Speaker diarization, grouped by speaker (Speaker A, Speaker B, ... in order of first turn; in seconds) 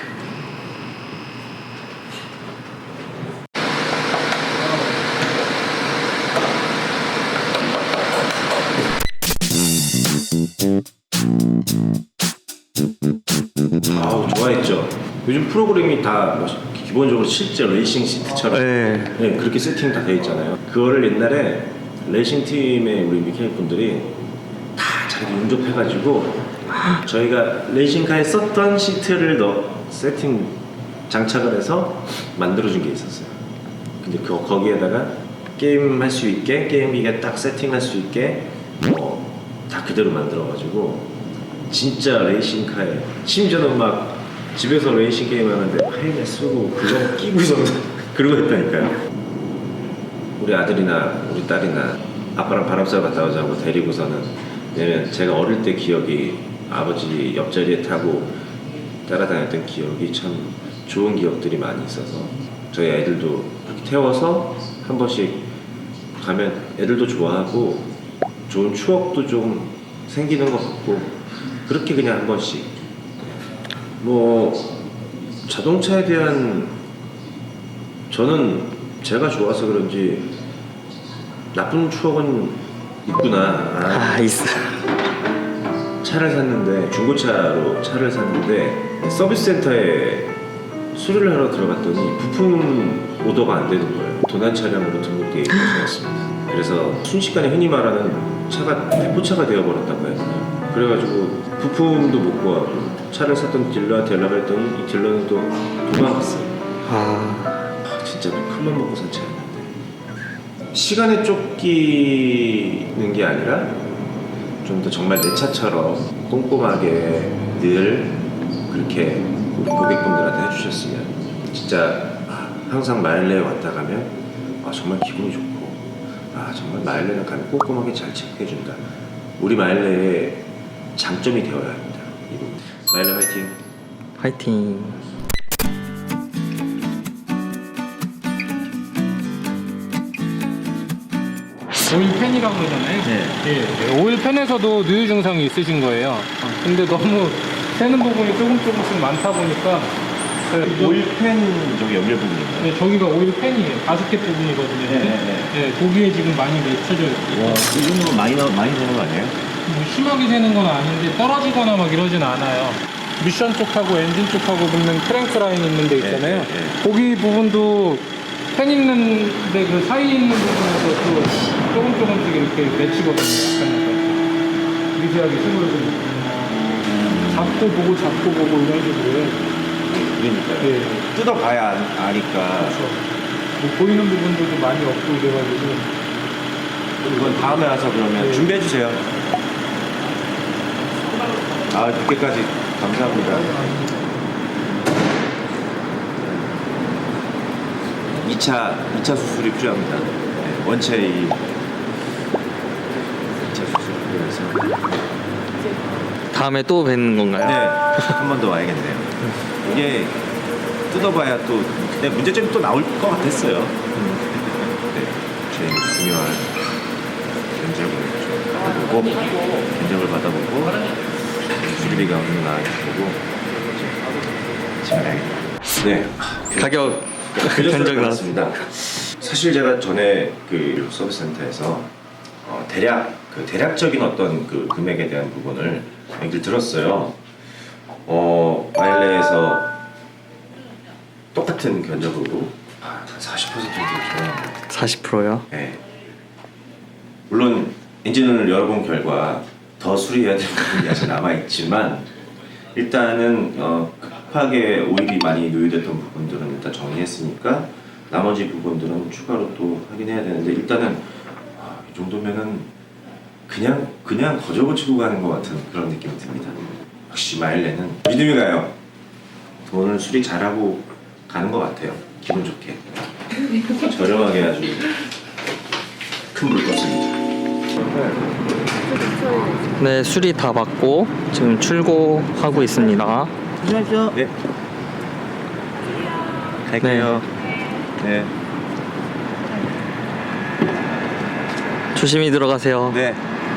Speaker A: 13.9-24.2, 24.8-33.4, 34.0-41.1, 41.7-49.0, 50.4-58.4, 59.1-65.5, 66.2-67.9, 68.5-72.7, 74.0-74.8, 75.4-76.8, 78.1-80.3, 81.5-84.2, 86.0-90.4, 90.9-106.5, 107.8-109.7, 110.7-113.8, 114.6-128.9, 129.4-133.6, 143.1-143.4, 150.6-152.7, 154.9-155.6, 157.3-159.4, 166.0-166.8, 179.8-182.8, 187.0-189.1, 191.7-193.7, 196.2-196.8, 198.2-201.5, 203.5-204.9, 207.4-210.2, 210.9-213.8, 214.3-216.6, 217.5-220.9, 221.5-223.9, 224.8-231.9, 232.4-237.2, 238.1-239.7, 241.3-244.7, 245.5-245.8, 247.3-252.1, 252.8-262.7, 263.5-268.8, 269.7-275.0, 276.3-277.2, 277.8-278.4, 283.6-284.3, 286.7-287.3, 288.0-288.3, 292.9-293.2
Speaker B: 18.5-19.1, 83.9-84.8, 106.8-107.7, 134.2-135.0, 206.3-208.2, 226.6-228.6, 244.7-245.5, 279.8-283.3, 286.8-287.2, 291.9-293.0
Speaker C: 141.8-150.0, 150.5-151.0, 152.6-157.8, 159.7-174.3, 174.9-179.4, 180.6-181.1, 182.6-186.0, 187.1-188.5